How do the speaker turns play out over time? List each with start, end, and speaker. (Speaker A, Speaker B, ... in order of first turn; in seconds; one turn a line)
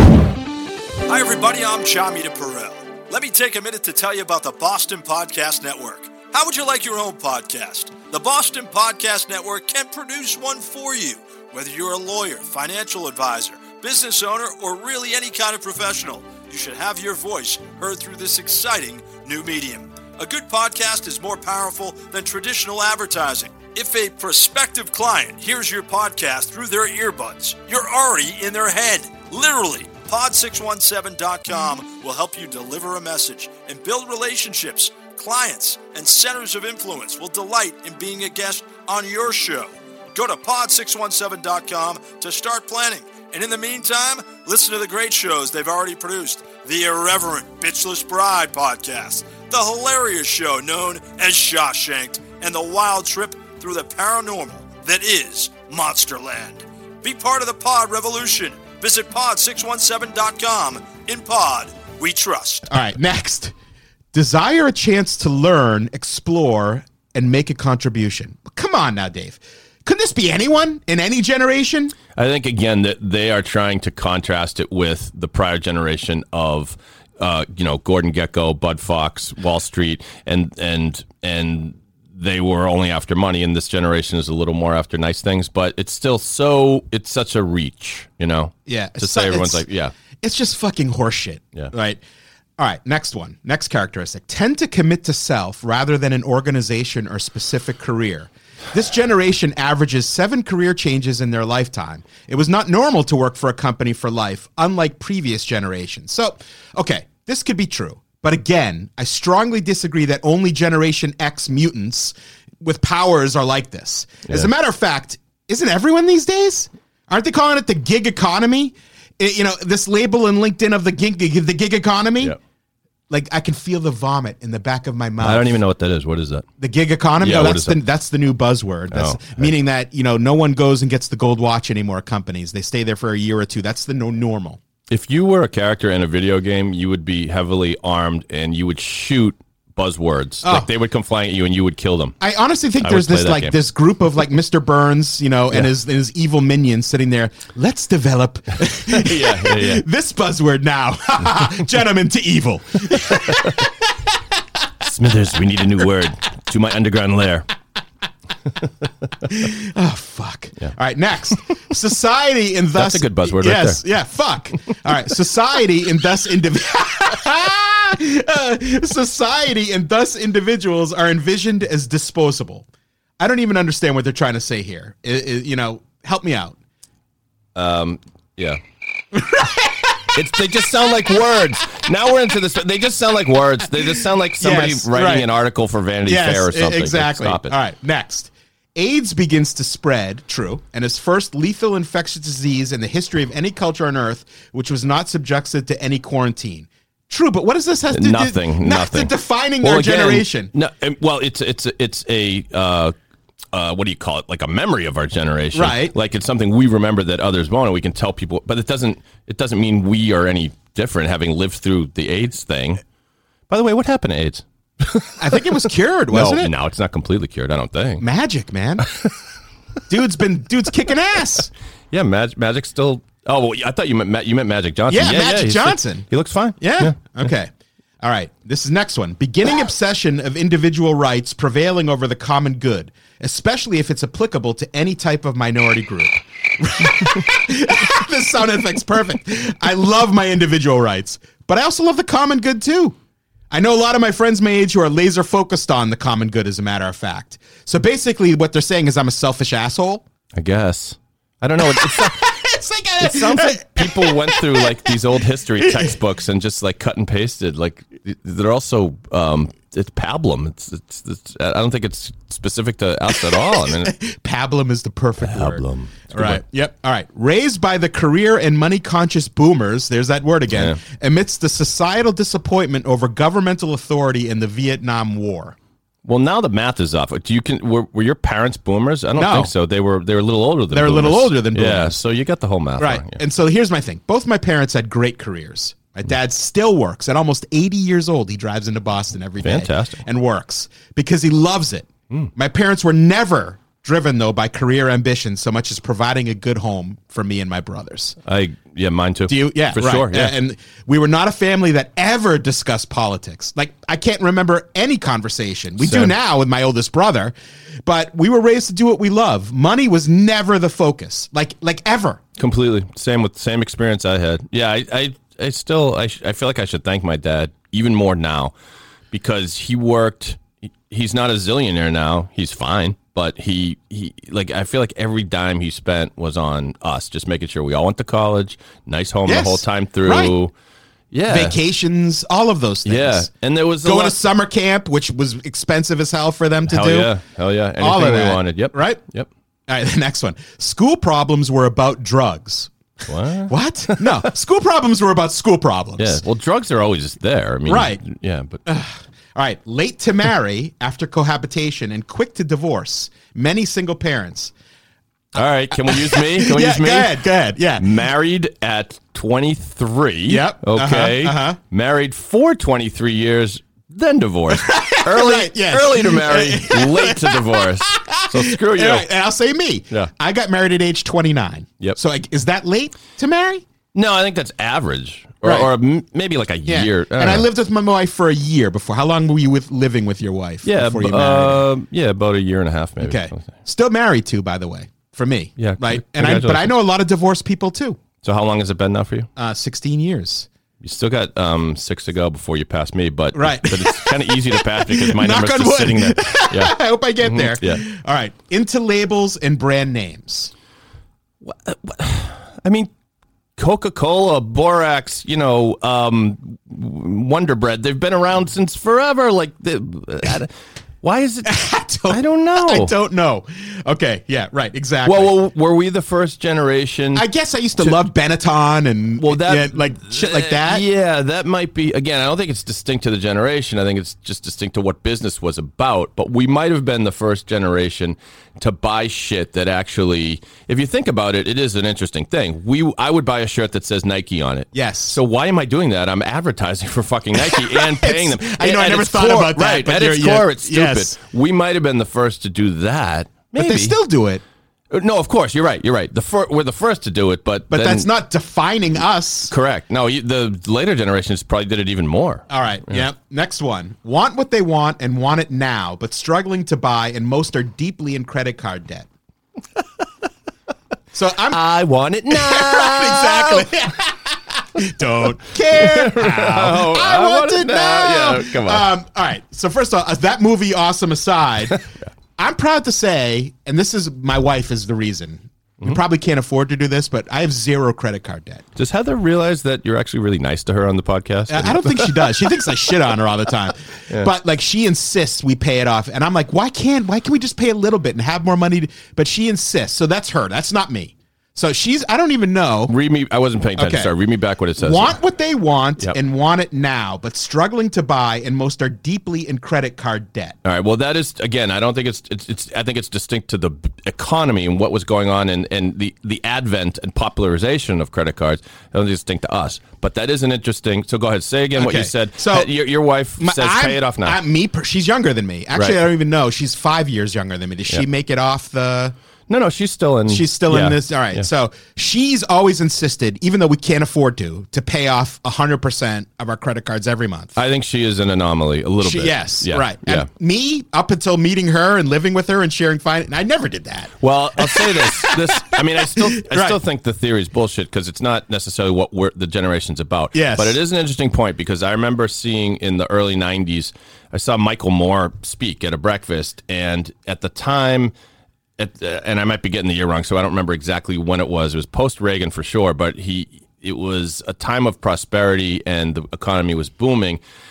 Speaker A: 1.1-62.7
Speaker B: 62.7-63.5
Speaker B: 64.1-71.9
Speaker C: 72.2-89.9
Speaker B: 88.7-89.6
Speaker B: 90.2-92.0
Speaker B: 92.6-122.3
Speaker B: 123.1-125.5
Speaker C: 125.2-126.5
Speaker B: 126.6-134.6
Speaker C: 127.2-127.8
Speaker C: 128.9-129.5
Speaker C: 134.9-142.2
Speaker B: 140.4-140.7
Speaker B: 142.2-154.1
Speaker C: 142.8-143.5
Speaker C: 148.8-149.8
Speaker C: 153.1-153.7
Speaker C: 154.8-157.5
Speaker B: 159.2-172.7
Speaker C: 162.7-163.8
Speaker B: 173.2-176.6
Speaker C: 177.5-178.6
Speaker B: 179.1-180.0
Speaker C: 180.1-187.5
Speaker B: 184.4-185.3
Speaker B: 186.1-200.5
Speaker C: 197.9-202.9
Speaker C: 203.5-212.8
Speaker B: 205.5-205.9
Speaker C: 213.5-215.5
Speaker B: 215.2-216.5
Speaker C: 216.1-218.0
Speaker B: 218.0-218.9
Speaker B: 219.9-221.5
Speaker C: 221.9-227.3
Speaker B: 224.9-226.1
Speaker B: 226.6-242.9
Speaker B: 243.5-250.0
Speaker C: 250.3-252.5
Speaker B: 251.6-255.0
Speaker C: 253.0-264.0
Speaker B: 255.6-255.9
Speaker B: 263.3-275.6
Speaker C: 265.2-266.4
Speaker C: 270.5-270.8
Speaker C: 276.0-283.2
Speaker B: 279.1-279.5
Speaker B: 280.7-282.0
Speaker B: 282.8-298.2
Speaker C: 289.4-290.0
Speaker C: 298.2-300.4
Speaker B: 299.3-307.3
Speaker C: 305.8-306.1
Speaker B: 307.8-312.2
Speaker C: 312.4-318.5
Speaker C: 319.1-330.5
Speaker B: 329.2-330.3
Speaker C: 331.1-331.6
Speaker B: 331.3-333.3
Speaker C: 332.8-334.2
Speaker B: 333.8-337.1
Speaker C: 336.7-339.3
Speaker B: 337.8-339.0
Speaker B: 339.7-342.7
Speaker C: 343.1-344.3
Speaker B: 343.5-346.2
Speaker C: 346.0-348.6
Speaker B: 347.6-348.0
Speaker B: 348.6-354.5
Speaker C: 355.3-357.2
Speaker B: 355.7-357.9
Speaker C: 357.8-369.1
Speaker B: 360.3-361.6
Speaker B: 364.5-373.6
Speaker C: 373.9-377.5
Speaker B: 375.4-375.7
Speaker B: 376.6-381.6
Speaker C: 380.6-383.5
Speaker B: 383.0-388.0
Speaker C: 385.6-386.7
Speaker C: 388.2-389.3
Speaker B: 389.4-390.5
Speaker C: 390.8-397.8
Speaker B: 393.3-400.5
Speaker C: 401.4-402.9
Speaker C: 403.6-412.9
Speaker B: 411.4-415.3
Speaker C: 415.0-417.2
Speaker B: 417.1-420.8
Speaker C: 419.2-444.0
Speaker B: 434.7-435.2
Speaker B: 437.4-441.1
Speaker B: 443.6-444.4
Speaker C: 444.9-448.1
Speaker B: 447.7-449.5
Speaker C: 449.5-453.1
Speaker B: 452.5-459.1
Speaker B: 461.1-461.6
Speaker C: 461.5-463.7
Speaker B: 462.3-478.6
Speaker C: 465.6-468.9
Speaker C: 478.8-482.6
Speaker B: 481.5-492.9
Speaker C: 492.9-495.2
Speaker B: 493.8-494.1
Speaker B: 494.8-500.6
Speaker C: 500.6-514.4
Speaker B: 511.8-512.7
Speaker B: 513.4-519.1
Speaker C: 515.7-516.0
Speaker C: 519.5-521.4
Speaker B: 520.3-527.5
Speaker C: 527.5-530.3
Speaker B: 529.0-536.8
Speaker C: 534.2-548.1
Speaker B: 540.3-540.8
Speaker C: 548.8-557.4